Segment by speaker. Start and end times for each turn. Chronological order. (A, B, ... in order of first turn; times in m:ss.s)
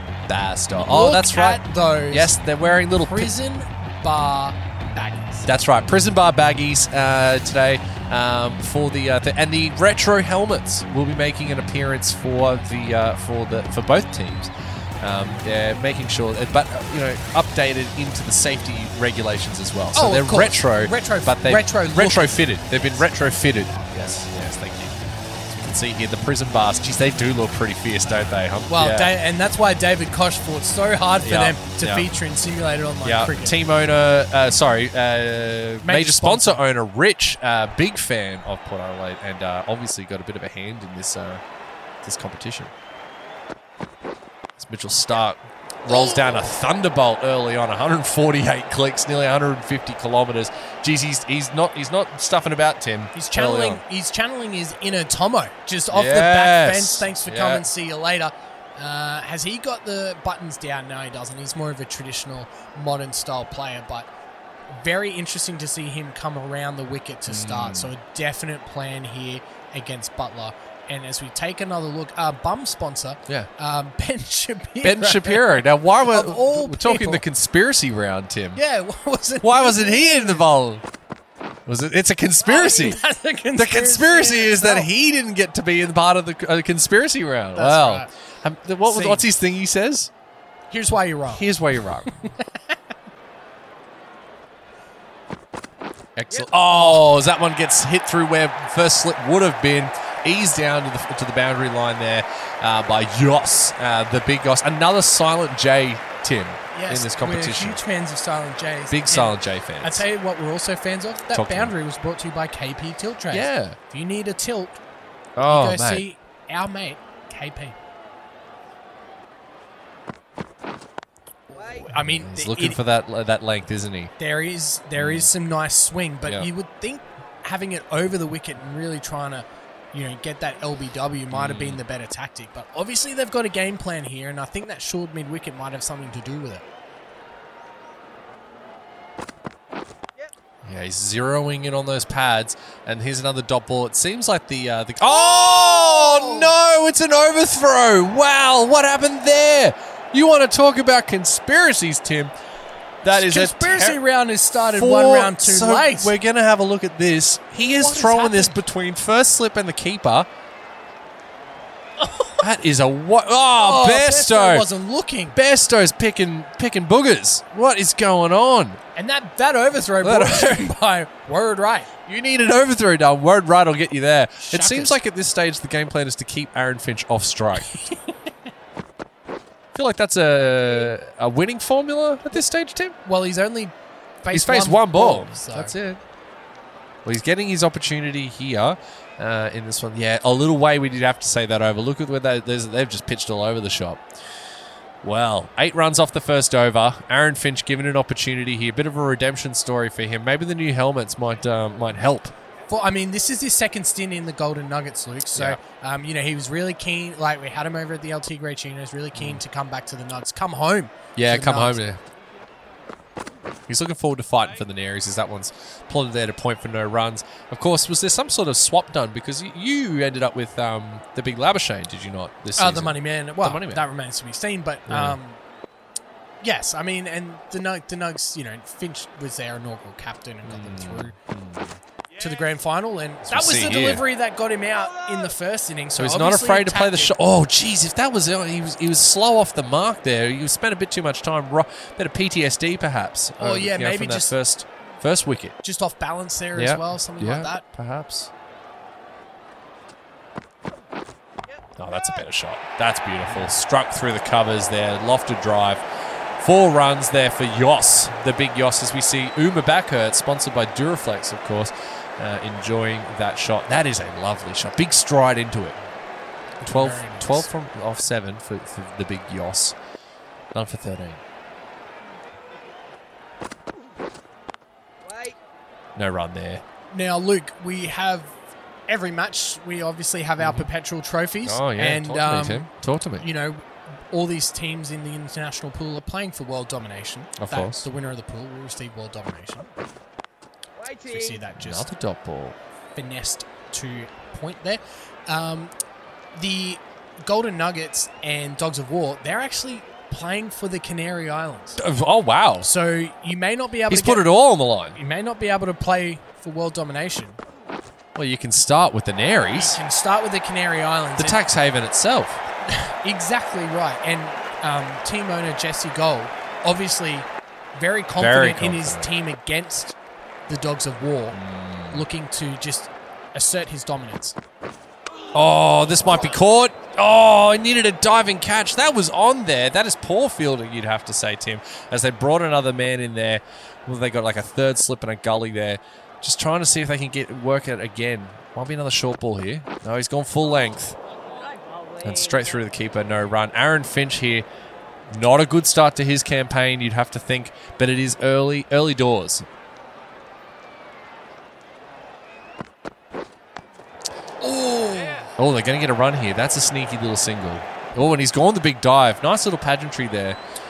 0:00.3-0:03.3 A
0:00.8-0:02.4 B
0:03.0-0:05.5 B
0:05.4-0:29.1 A
0:19.9-0:22.3 B
0:28.7-0:33.7 B
0:31.2-0:32.1 A
0:33.0-0:41.4 A
0:35.8-0:36.6 B
0:42.0-0:42.7 A
0:44.6-0:53.8 A
0:53.1-1:04.1 B
0:55.9-0:57.6 A
1:04.7-1:17.2 B
1:07.3-1:07.9 A
1:14.8-1:18.6 A
1:18.5-1:20.4 B
1:19.4-1:20.8 A
1:21.6-1:23.0 A
1:22.4-1:24.9 B
1:23.5-1:30.1 A
1:27.6-1:28.1 B
1:28.9-1:29.2 B
1:30.7-1:31.4 B
1:31.3-1:32.2 A
1:36.2-1:47.8 A
1:36.5-1:37.0 B
1:46.7-1:54.8 B
1:48.9-1:50.0 A
1:51.3-1:51.7 A
1:53.3-1:53.8 A
1:55.4-1:56.0 A
1:55.5-1:57.8 B
2:01.5-2:02.8 B
2:01.8-2:04.1 A
2:04.2-2:16.6 B
2:05.0-2:05.3 A
2:11.3-2:11.8 A
2:20.6-2:32.3 A
2:25.1-2:26.5 B
2:33.0-2:34.0 A
2:33.1-2:36.1 B
2:34.6-2:40.3 A
2:37.6-2:38.6 B
2:42.0-2:42.4 B
2:42.4-2:44.7 A
2:43.6-2:45.4 B
2:45.3-2:48.8 A
2:49.0-2:51.9 B
2:50.0-2:50.7 A
2:52.0-2:57.8 A
2:54.4-2:54.9 B
2:59.7-3:03.0 A
3:03.0-3:05.7 B
3:04.3-3:06.0 A
3:07.0-3:14.0 A
3:15.0-3:22.3 A
3:22.7-3:31.8 B
3:25.3-3:25.6 A
3:29.1-3:29.4 A
3:31.2-3:32.0 A
3:33.7-3:43.9 A
3:42.6-3:45.4 B
3:44.9-3:45.2 A
3:46.4-3:51.2 B
3:50.4-3:51.8 A
3:52.2-3:57.1 B
3:53.2-3:54.0 A
3:55.9-4:05.6 A
4:03.4-4:04.3 B
4:05.6-4:07.6 B
4:06.5-4:08.3 A
4:11.8-4:15.8 A
4:16.4-4:25.8 A
4:26.6-4:29.8 A
4:26.7-4:27.5 B
4:30.5-4:31.2 A
4:36.0-4:36.6 A
4:36.9-4:38.3 B
4:38.9-4:49.7 B
4:40.4-4:40.7 A
4:41.4-4:43.3 A
4:47.4-4:47.8 A
4:51.0-4:51.9 B
4:51.6-4:52.6 A
4:52.9-4:55.7 B
4:56.3-5:01.8 B
5:01.8-5:02.7 A
5:02.6-5:04.3 B
5:03.9-5:05.0 A
5:04.9-5:07.4 B
5:08.1-5:09.8 A
5:09.5-5:11.4 B
5:11.2-5:12.4 A
5:12.7-5:20.0 B
5:18.2-5:19.1 A
5:20.5-5:21.4 B
5:21.3-5:22.0 A
5:21.9-5:24.4 B
5:25.3-5:41.0 A
5:42.0-5:44.4 A
5:45.1-5:49.4 A
5:54.4-5:55.3 B
5:55.4-6:00.4 A